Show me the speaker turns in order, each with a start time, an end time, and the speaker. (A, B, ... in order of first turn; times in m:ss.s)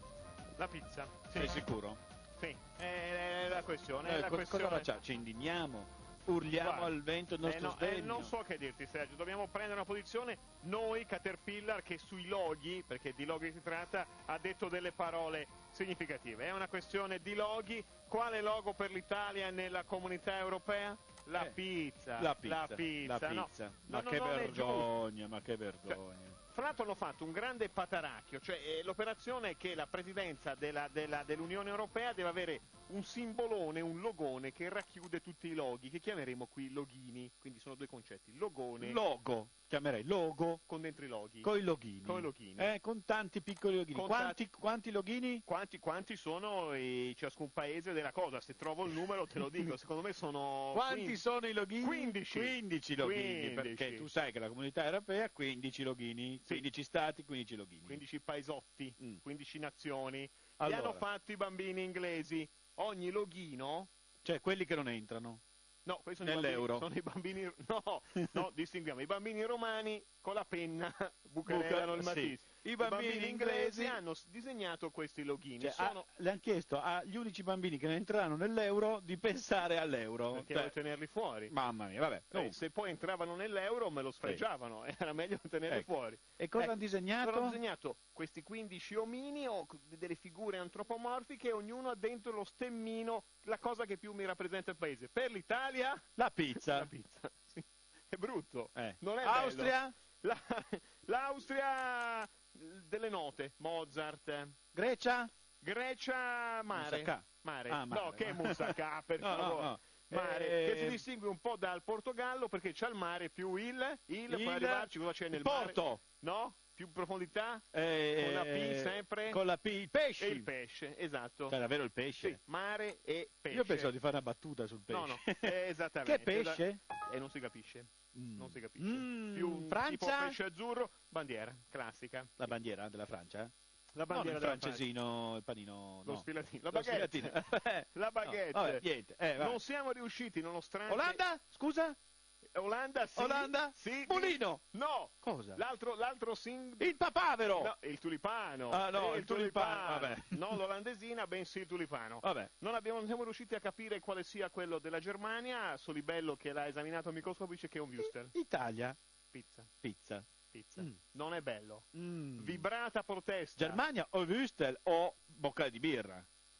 0:00.6-0:01.6 A
0:01.3-0:02.0 B
0:02.4-0:04.9 A
0:04.0-0:08.3 B
0:06.6-0:24.9 A
0:22.2-0:26.4 B
0:25.9-0:39.0 A
0:38.8-0:40.6 B
0:40.7-0:41.5 A
0:41.4-0:45.4 B
0:42.0-0:42.7 A
0:43.9-0:44.4 A
0:45.4-0:51.2 A
0:50.7-0:58.0 B
0:51.8-0:54.1 A
0:57.8-1:03.9 A
1:00.6-1:01.0 B
1:04.2-1:05.4 B
1:05.8-1:16.1 A
1:06.2-1:06.8 B
1:08.2-1:08.5 B
1:11.4-1:14.0 B
1:15.6-1:20.7 B
1:20.3-1:21.5 A
1:21.5-1:22.6 B
1:22.3-1:36.0 A
1:26.4-1:27.6 B
1:36.2-1:36.9 B
1:36.6-1:44.6 A
1:38.7-1:39.9 B
1:44.7-1:45.3 B
1:45.6-1:59.4 A
1:46.7-1:51.0 B
1:54.3-1:56.0 B
1:57.7-2:00.5 B
2:00.2-2:01.6 A
2:01.5-2:02.4 B
2:02.2-2:03.9 A
2:03.5-2:06.8 B
2:04.9-2:12.4 A
2:08.1-2:10.4 B
2:12.4-2:13.5 B
2:13.9-2:14.8 A
2:14.1-2:19.6 B
2:16.0-2:18.8 A
2:19.4-2:21.2 A
2:20.9-2:22.0 B
2:22.5-2:26.9 A
2:23.2-2:24.6 B
2:25.2-2:25.6 B
2:26.8-2:27.7 B
2:27.5-2:38.3 A
2:28.7-2:30.6 B
2:32.2-2:32.5 B
2:38.3-2:39.0 B
2:39.3-2:39.7 A
2:39.8-2:40.3 B
2:40.5-2:43.8 A
2:41.9-2:42.7 B
2:43.6-2:46.2 B